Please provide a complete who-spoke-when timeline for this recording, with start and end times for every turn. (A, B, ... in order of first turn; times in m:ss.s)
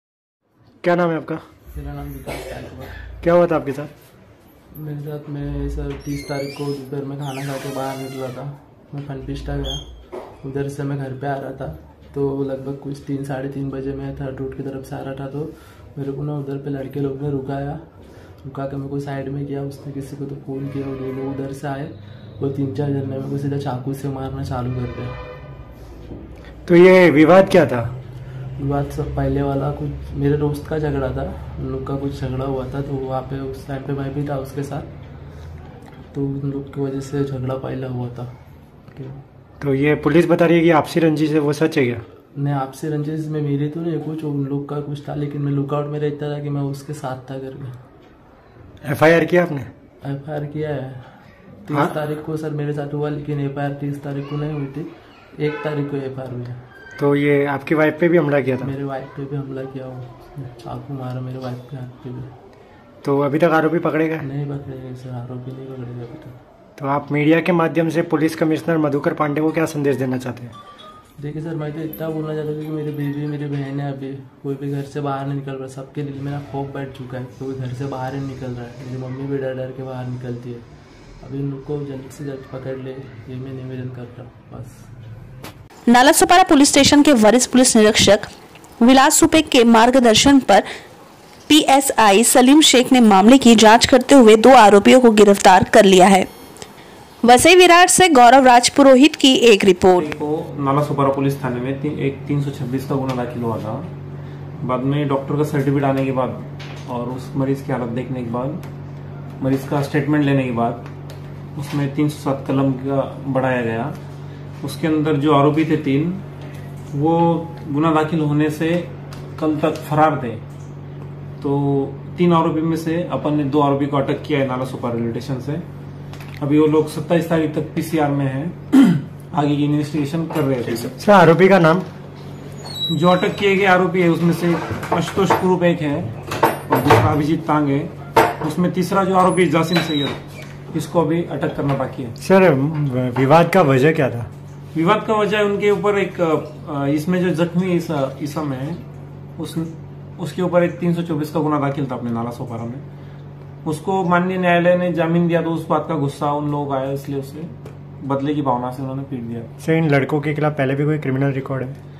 0:00.8-0:01.4 A
0:01.7-0:03.0 B
0:03.2-0:03.9 A
0:04.7-0:09.8 B
0:10.4-0:17.8 B
0:18.4-0:25.2 B
0:26.6-0:27.9 A
0:28.6-0:34.9 B
0:36.1-0:38.3 B
0:38.9-0:39.2 B
0:39.6-0:42.0 A
0:42.3-0:47.8 B
0:48.8-0:49.7 A
0:50.0-0:56.6 B
0:57.0-0:58.7 A
0:58.6-1:02.3 B
1:03.0-1:04.2 A
1:04.2-1:06.4 B
1:06.8-1:10.5 A
1:11.2-1:20.6 B
1:21.2-1:24.9 B
1:25.9-1:28.3 C
1:28.8-1:30.6 C
1:31.5-1:36.3 C
1:37.2-1:40.0 C
1:39.9-1:43.9 D
1:44.6-1:48.6 D
1:49.4-1:50.8 D
1:51.5-1:54.0 D
1:54.6-1:56.2 D
1:56.9-2:00.4 D
2:01.4-2:05.6 D
2:06.4-2:10.9 D
2:11.0-2:11.9 A
2:12.9-2:16.1 D
2:16.7-2:17.9 D
2:18.4-2:20.2 D
2:20.7-2:22.1 D
2:22.2-2:24.3 A
2:24.7-2:28.8 D
2:29.4-2:32.8 D
2:33.6-2:37.5 D
2:38.0-2:39.5 D
2:39.6-2:41.8 A